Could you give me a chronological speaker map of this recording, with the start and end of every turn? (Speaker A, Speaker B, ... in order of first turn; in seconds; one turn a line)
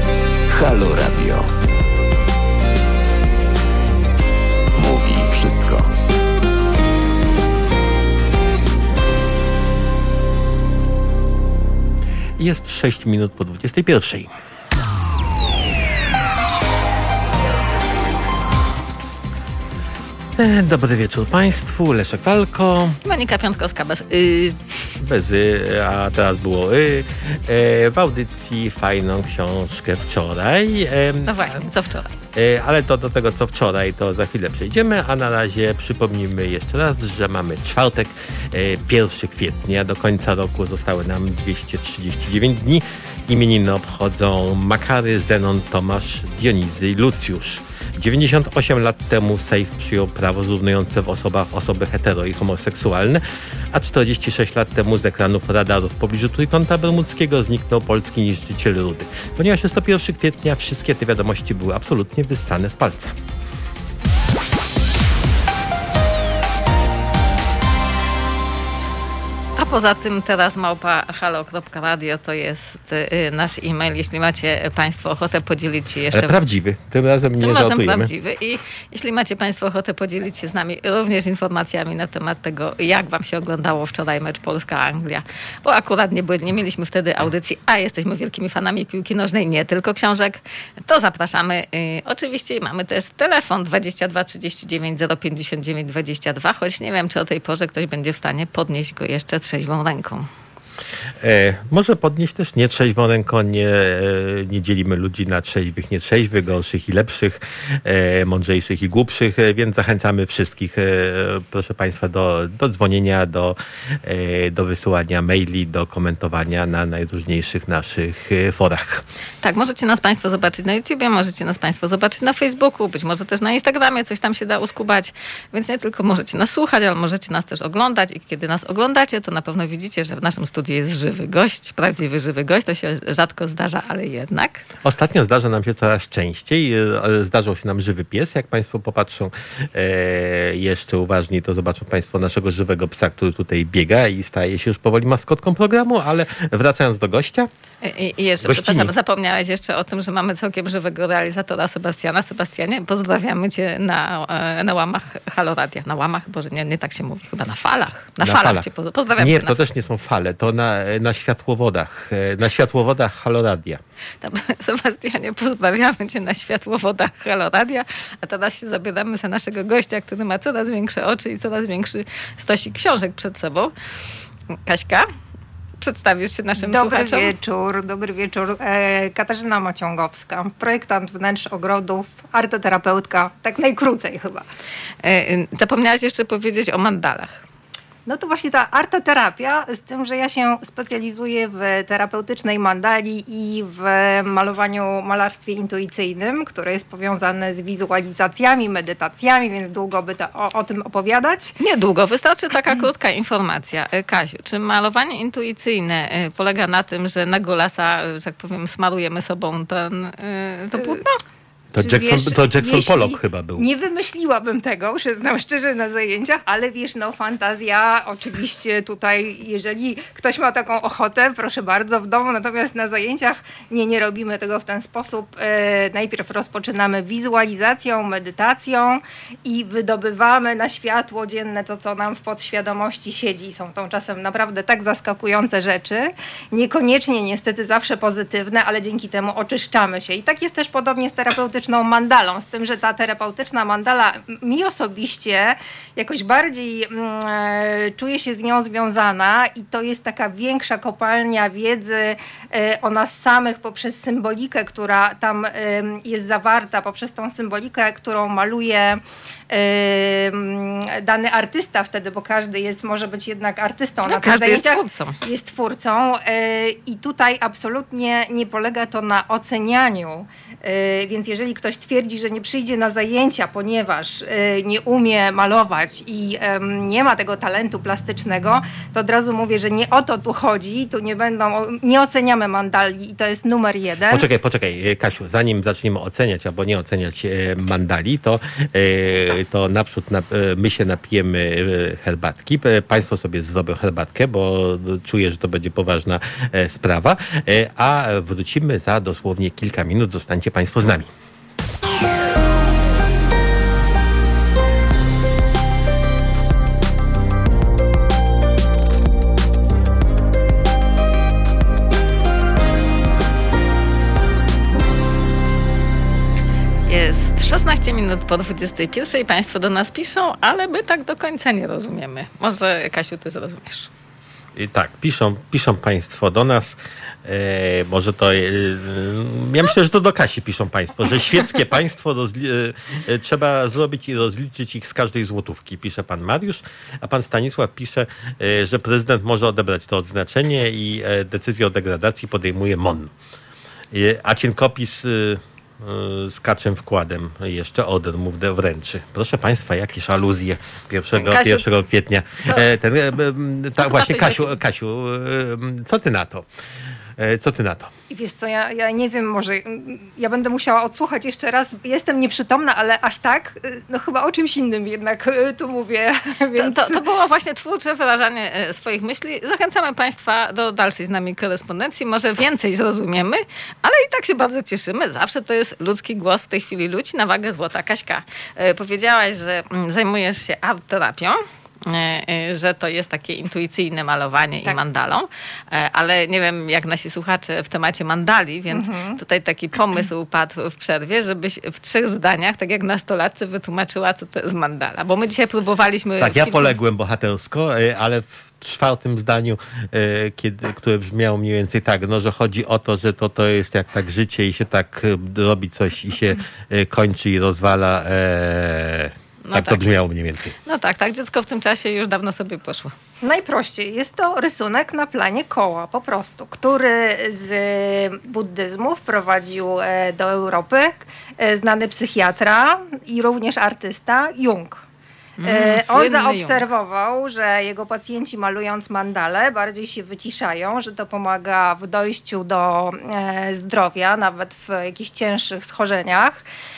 Speaker A: 0.5-1.5
Speaker A: 4.8-5.9
Speaker B: 12.4-14.3
Speaker B: 20.4-23.0
Speaker C: 23.0-24.7
Speaker B: 25.0-31.7
Speaker C: 31.2-32.2
Speaker B: 32.3-63.1
Speaker C: 69.6-76.4
Speaker B: 76.1-78.1
Speaker C: 77.4-100.3
Speaker B: 101.2-119.0
Speaker C: 119.4-134.7
Speaker B: 134.8-147.5
Speaker C: 147.8-159.6
Speaker B: 148.4-148.9
Speaker B: 158.2-158.7
Speaker B: 159.2-163.8
Speaker C: 164.2-173.7
Speaker C: 174.6-175.1
Speaker C: 175.8-177.3
Speaker D: 176.6-184.5
Speaker C: 185.0-187.4
Speaker D: 188.1-201.6
Speaker C: 201.6-211.2
Speaker D: 210.8-211.0
Speaker B: 211.7-213.7
Speaker D: 211.8-284.3
Speaker C: 264.1-265.2
Speaker B: 284.1-301.1
Speaker C: 316.9-323.9
Speaker B: 324.6-343.1
Speaker B: 343.9-356.5
Speaker C: 351.2-351.7
Speaker C: 353.8-354.5
Speaker B: 357.2-357.9
Speaker D: 358.1-367.0
Speaker C: 366.6-396.8
Speaker D: 388.7-389.2
Speaker B: 396.2-410.5
Speaker C: 409.4-409.9
Speaker C: 410.6-412.9
Speaker D: 413.2-424.8
Speaker C: 425.4-426.7
Speaker D: 425.4-436.4